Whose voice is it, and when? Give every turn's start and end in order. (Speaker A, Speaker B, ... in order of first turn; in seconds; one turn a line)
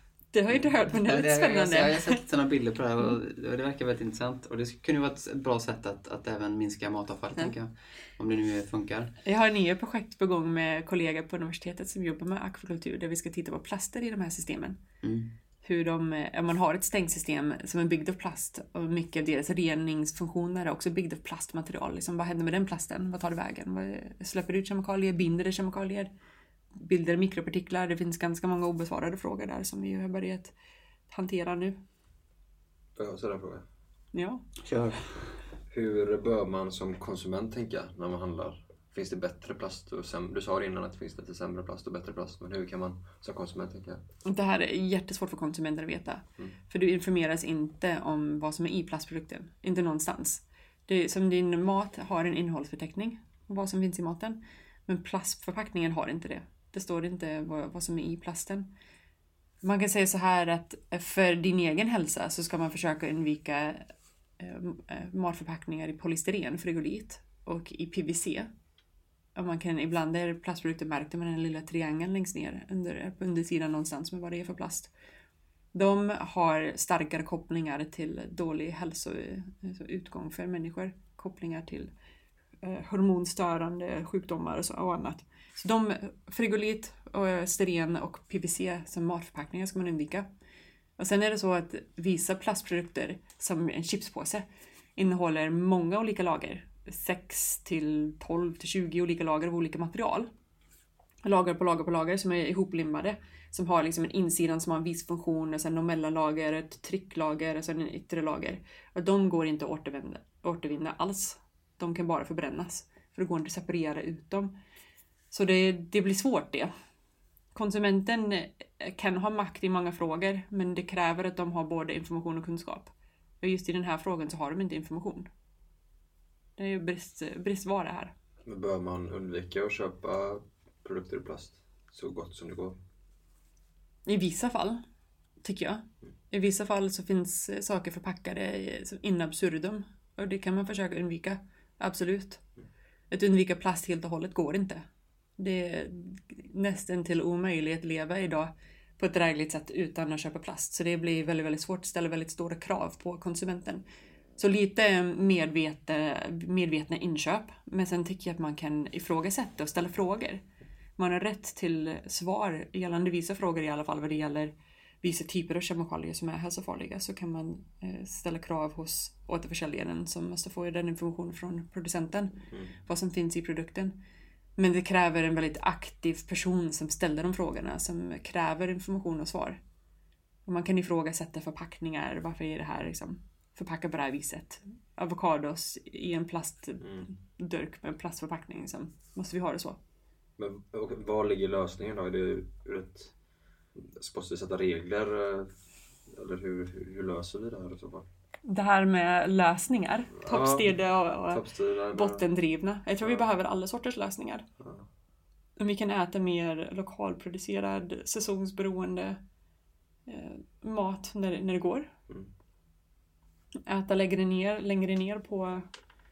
Speaker A: 0.3-2.2
Speaker B: 0.5-9.1
Speaker A: 9.2-14.8
Speaker B: 15.0-15.3
Speaker A: 15.6-26.1
Speaker A: 26.8-30.5
Speaker A: 31.1-31.8
Speaker C: 33.0-33.6
Speaker A: 34.1-34.5
Speaker B: 34.6-35.4
Speaker C: 35.7-44.0
Speaker A: 44.2-58.7
Speaker A: 59.6-68.5
Speaker A: 69.3-74.9
Speaker A: 75.7-81.9
Speaker A: 82.6-90.3
Speaker A: 91.0-100.3
Speaker A: 101.2-114.5
Speaker A: 115.3-116.7
Speaker A: 117.5-125.3
Speaker A: 126.6-128.1
Speaker C: 128.4-132.8
Speaker A: 134.1-134.8
Speaker A: 135.4-142.4
Speaker A: 143.1-144.8
Speaker A: 145.4-153.8
Speaker A: 154.4-160.4
Speaker A: 161.0-174.0
Speaker A: 174.6-179.6
Speaker A: 180.4-189.8
Speaker C: 190.4-193.1
Speaker C: 193.8-198.1
Speaker A: 198.4-204.4
Speaker C: 200.2-202.2
Speaker C: 203.0-203.3
Speaker C: 204.6-204.8
Speaker A: 205.6-209.2
Speaker A: 210.1-211.9
Speaker A: 213.7-215.7